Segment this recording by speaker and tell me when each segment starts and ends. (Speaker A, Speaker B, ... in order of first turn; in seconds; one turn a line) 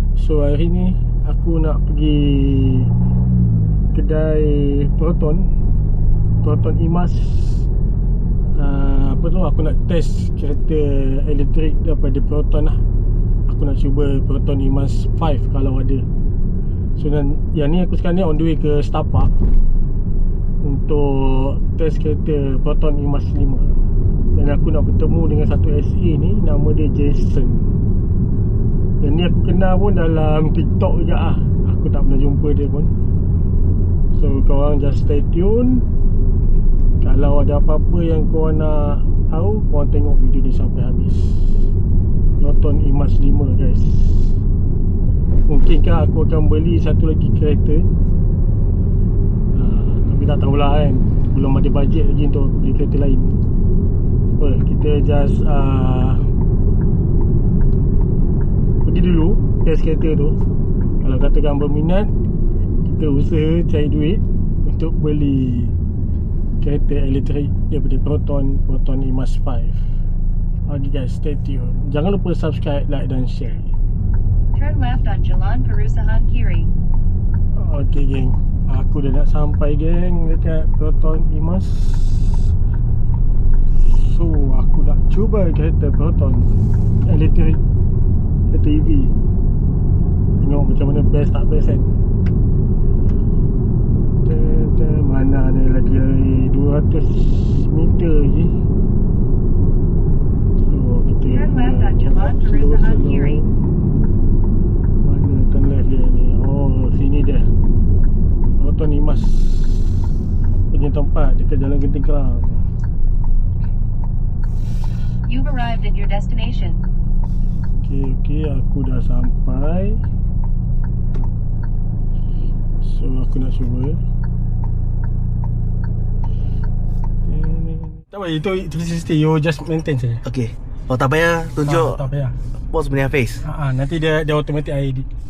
Speaker A: 0.2-2.9
Speaker A: 3.9-5.5
Speaker A: 6.4-7.7
Speaker A: 8.6-12.8
Speaker A: 13.5-16.1
Speaker A: 17.0-19.3
Speaker A: 20.6-23.8
Speaker A: 24.4-27.9
Speaker A: 29.0-32.9
Speaker A: 34.1-35.9
Speaker A: 37.0-41.6
Speaker A: 42.4-44.4
Speaker A: 45.5-47.9
Speaker A: 49.5-53.4
Speaker A: 54.4-56.2
Speaker A: 58.9-60.4
Speaker A: 61.0-62.1
Speaker A: 62.8-65.8
Speaker A: 66.6-69.9
Speaker A: 70.7-73.7
Speaker B: 74.5-76.8
Speaker A: 77.5-82.5
Speaker A: 83.9-86.5
Speaker A: 87.1-87.6
Speaker A: 88.5-89.1
Speaker A: 90.4-91.9
Speaker A: 94.2-98.5
Speaker A: 100.7-103.5
Speaker B: 101.3-103.5
Speaker A: 105.0-107.5
Speaker A: 108.6-110.0
Speaker A: 110.7-112.7
Speaker B: 115.3-116.8
Speaker A: 117.8-120.0
Speaker A: 122.8-124.0
Speaker A: 127.2-130.2
Speaker C: 130.2-132.1
Speaker A: 131.6-132.4
Speaker C: 132.7-133.4
Speaker A: 133.4-135.1